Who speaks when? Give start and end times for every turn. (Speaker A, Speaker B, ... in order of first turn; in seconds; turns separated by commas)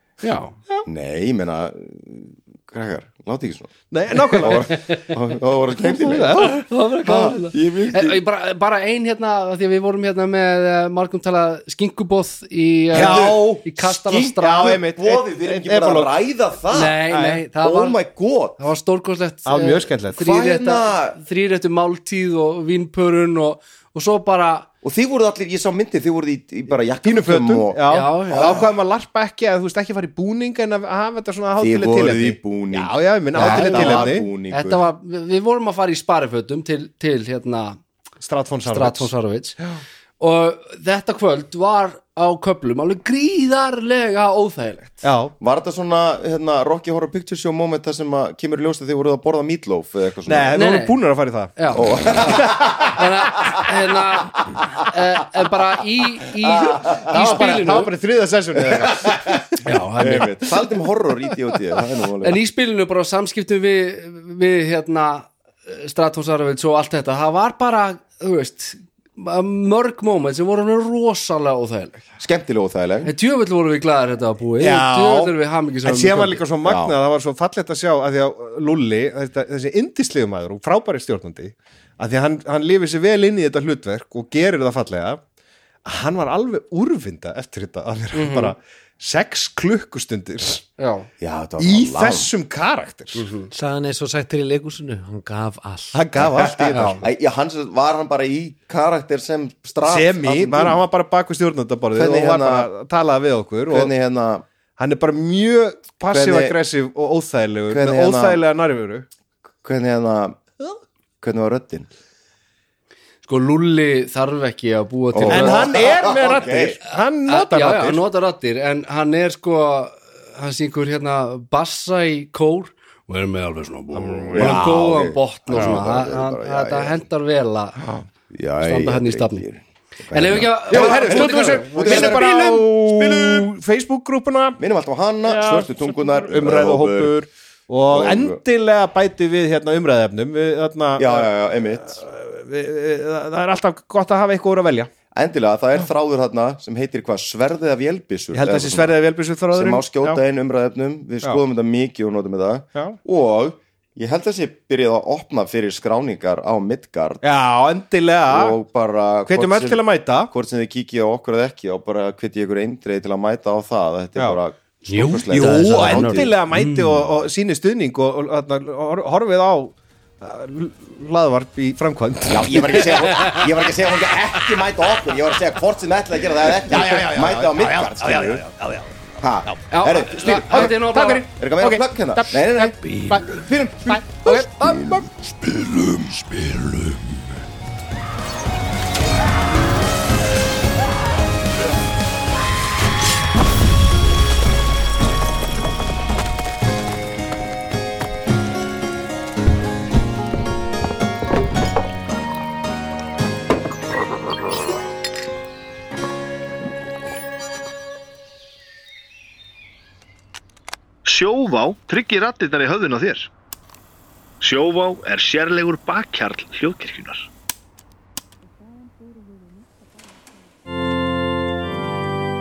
Speaker A: 0.2-0.6, Speaker B: 0.9-3.7, Speaker C: 3.9-4.8, Speaker B: 4.3-8.2, Speaker C: 6.0-6.6, Speaker A: 6.3-14.8, Speaker B: 12.9-17.0, Speaker C: 12.9-13.6, Speaker C: 14.4-16.1, Speaker A: 16.7-18.0, Speaker C: 17.1-17.4, Speaker B: 17.6-18.6, Speaker A: 18.6-24.7, Speaker C: 19.5-20.2, Speaker B: 20.1-21.2, Speaker B: 24.8-28.7, Speaker C: 27.0-34.3, Speaker A: 27.9-28.7, Speaker B: 31.6-34.8, Speaker A: 33.4-37.8, Speaker C: 38.2-39.8, Speaker A: 38.7-39.6, Speaker A: 40.2-45.0, Speaker C: 45.0-45.3, Speaker B: 45.4-50.6, Speaker C: 50.3-51.8, Speaker A: 50.5-51.0, Speaker A: 51.6-57.9, Speaker B: 51.7-53.0, Speaker C: 52.4-52.9, Speaker B: 56.9-57.3, Speaker C: 57.1-59.7, Speaker B: 58.5-62.4, Speaker A: 59.6-60.5, Speaker A: 62.2-72.0, Speaker B: 72.2-73.1, Speaker A: 73.0-76.4, Speaker C: 74.6-85.2, Speaker B: 76.6-77.0, Speaker C: 85.8-90.7, Speaker A: 88.1-88.5, Speaker A: 90.8-91.1, Speaker B: 91.2-92.3, Speaker C: 91.6-93.3, Speaker A: 93.2-93.5, Speaker D: 93.5-96.0, Speaker C: 95.9-97.0, Speaker B: 96.2-100.8, Speaker A: 96.7-97.0, Speaker C: 99.8-103.9, Speaker B: 101.9-102.7, Speaker B: 103.7-104.5, Speaker C: 104.8-109.1, Speaker B: 106.1-106.5, Speaker B: 107.7-108.4, Speaker B: 109.6-110.4, Speaker B: 111.2-111.9, Speaker A: 113.2-115.8, Speaker B: 115.1-116.8, Speaker C: 115.3-118.0, Speaker A: 117.3-127.9, Speaker C: 124.0-124.6, Speaker B: 124.3-127.0, Speaker C: 125.5-125.8, Speaker B: 128.3-133.5, Speaker A: 128.6-129.4, Speaker A: 130.1-132.2, Speaker C: 130.7-134.6, Speaker B: 134.6-137.2, Speaker C: 135.2-144.9, Speaker B: 137.9-138.4, Speaker B: 141.0-142.0, Speaker B: 145.1-149.0, Speaker C: 148.3-150.2, Speaker B: 149.5-157.2, Speaker C: 157.2-158.6, Speaker B: 158.3-166.3, Speaker C: 159.3-160.3, Speaker A: 164.9-167.1, Speaker C: 165.3-173.5, Speaker B: 172.3-178.4, Speaker C: 176.4-179.7, Speaker B: 179.2-184.4, Speaker A: 179.7-181.3, Speaker C: 180.5-185.1, Speaker D: 182.8-183.3, Speaker A: 184.2-184.8, Speaker E: 211.1-213.3, Speaker E: 214.4-217.3